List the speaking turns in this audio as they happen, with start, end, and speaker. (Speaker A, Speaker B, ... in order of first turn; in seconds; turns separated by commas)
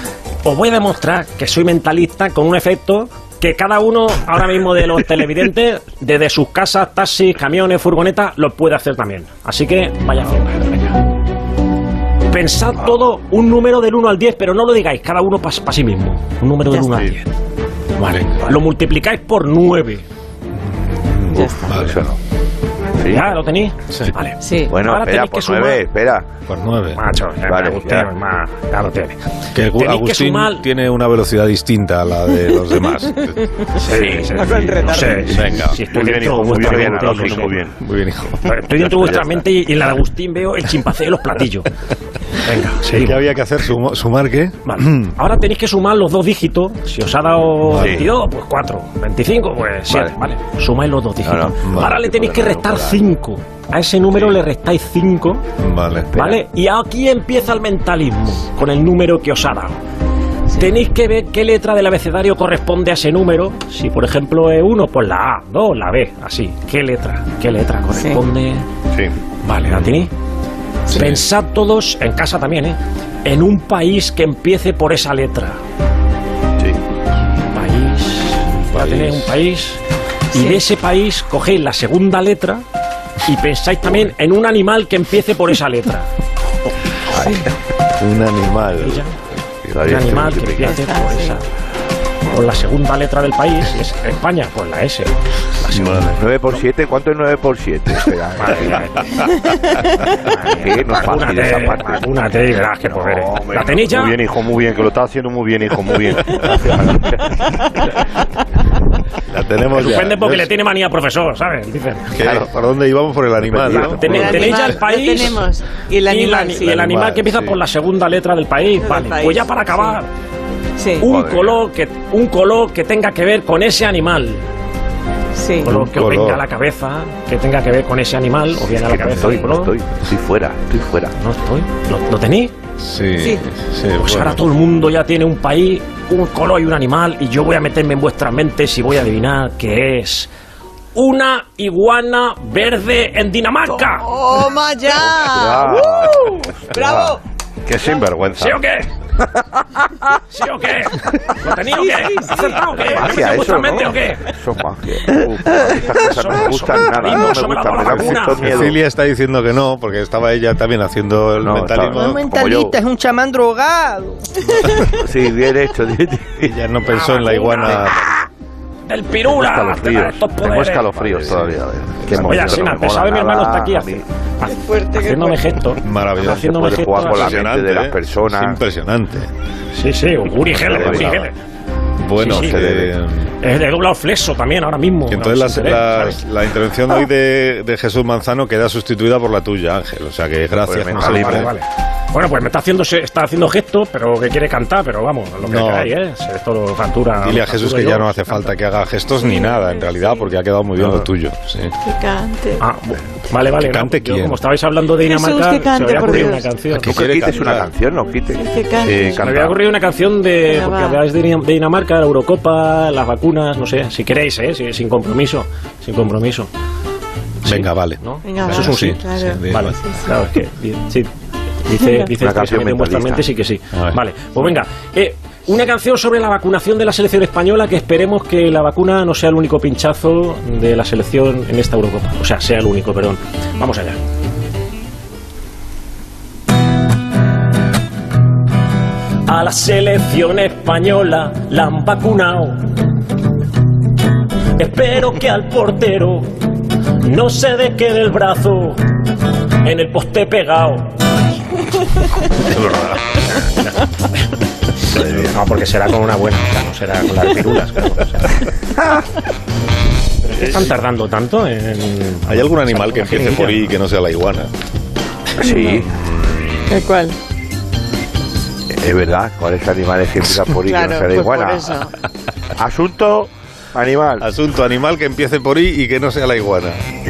Speaker A: 0.4-11.0, Speaker A: 12.3-17.3, Speaker A: 18.0-20.0, Speaker B: 20.9-22.1, Speaker C: 21.6-22.1, Speaker C: 23.0-23.3, Speaker A: 23.1-25.8, Speaker D: 24.4-24.7, Speaker C: 24.7-26.3, Speaker B: 26.4-27.0, Speaker A: 26.9-30.7, Speaker C: 27.4-28.1, Speaker B: 29.5-33.6, Speaker A: 33.7-37.6, Speaker E: 34.1-37.8, Speaker B: 35.3-35.8, Speaker B: 37.8-38.5, Speaker A: 38.4-41.7, Speaker A: 42.4-43.2, Speaker B: 42.8-45.1, Speaker A: 44.6-55.4, Speaker B: 47.7-48.1, Speaker C: 47.7-48.1, Speaker C: 49.9-50.1, Speaker C: 51.2-53.0, Speaker B: 51.6-52.0, Speaker B: 55.6-56.1, Speaker C: 56.1-56.4, Speaker A: 56.1-59.8, Speaker A: 60.5-68.7, Speaker D: 67.9-68.2, Speaker A: 69.4-70.1, Speaker B: 69.7-70.0, Speaker A: 70.9-75.6, Speaker A: 77.5-79.8, Speaker B: 78.7-79.3, Speaker A: 80.3-82.6, Speaker D: 80.3-80.6, Speaker A: 83.2-86.1, Speaker D: 87.1-87.5, Speaker C: 87.1-87.4, Speaker B: 88.0-89.1, Speaker A: 88.8-89.1, Speaker B: 89.6-90.3, Speaker C: 89.7-90.8, Speaker A: 89.8-91.4, Speaker D: 90.7-91.4, Speaker A: 92.3-96.2, Speaker B: 95.7-96.2, Speaker C: 96.2-98.9, Speaker A: 98.4-99.3, Speaker A: 100.2-104.2, Speaker C: 100.5-102.2, Speaker C: 103.0-103.7, Speaker E: 103.3-107.4, Speaker B: 109.3-110.5, Speaker A: 109.7-112.3, Speaker B: 112.1-114.6, Speaker E: 113.5-113.8, Speaker A: 113.7-115.4, Speaker D: 114.0-116.8, Speaker A: 116.0-120.1, Speaker B: 116.6-117.6, Speaker D: 118.8-120.0, Speaker D: 120.8-121.1, Speaker A: 121.0-124.5, Speaker C: 121.0-121.6, Speaker D: 125.3-125.7, Speaker A: 125.6-129.7, Speaker B: 125.6-126.4, Speaker C: 128.7-131.1, Speaker A: 131.2-132.5, Speaker B: 132.8-134.4, Speaker A: 134.0-140.3, Speaker A: 140.9-144.1, Speaker D: 144.0-147.1, Speaker C: 145.2-147.2, Speaker E: 145.4-145.7, Speaker E: 147.7-148.6, Speaker A: 148.3-148.9, Speaker A: 150.3-154.3, Speaker D: 151.9-152.5, Speaker C: 152.8-158.8, Speaker A: 155.6-158.6, Speaker B: 158.3-162.3, Speaker C: 161.4-162.8, Speaker F: 161.8-164.3, Speaker C: 164.9-166.5, Speaker B: 166.4-168.1, Speaker A: 166.9-167.9, Speaker A: 168.9-171.0, Speaker E: 169.2-173.1, Speaker C: 170.9-171.5, Speaker C: 172.0-174.1, Speaker A: 172.1-177.3, Speaker D: 174.4-175.6, Speaker B: 175.8-179.3, Speaker C: 176.2-178.6, Speaker A: 179.7-181.3, Speaker B: 180.4-181.3, Speaker C: 180.6-181.2, Speaker B: 182.0-183.3, Speaker A: 182.1-182.6, Speaker C: 182.3-182.9, Speaker A: 183.4-186.2, Speaker B: 185.1-191.5, Speaker C: 190.7-191.5, Speaker A: 190.9-198.5, Speaker B: 195.4-195.9, Speaker B: 197.2-201.7, Speaker D: 199.2-200.1, Speaker D: 201.8-202.6, Speaker A: 202.6-206.9, Speaker B: 203.5-204.4, Speaker D: 205.0-206.5, Speaker B: 206.7-207.7, Speaker C: 206.8-209.6, Speaker D: 208.3-209.2, Speaker A: 209.2-216.5, Speaker D: 210.4-211.0, Speaker A: 217.4-221.1, Speaker B: 217.4-219.8, Speaker D: 218.2-220.0, Speaker A: 221.6-234.0, Speaker D: 221.8-222.1, Speaker C: 222.1-223.3, Speaker B: 223.7-224.0, Speaker A: 239.2-242.6, Speaker A: 244.6-246.3, Speaker A: 247.0-248.8, Speaker A: 249.6-250.9, Speaker A: 252.4-253.8, Speaker B: 252.5-252.9, Speaker A: 254.9-258.4, Speaker C: 255.0-255.3, Speaker A: 260.3-263.7, Speaker B: 262.2-264.5, Speaker D: 265.4-265.8, Speaker C: 265.4-265.8, Speaker B: 265.7-266.8, Speaker D: 266.7-267.1, Speaker C: 268.7-271.8, Speaker D: 270.6-271.9, Speaker C: 272.6-274.2, Speaker B: 274.2-276.8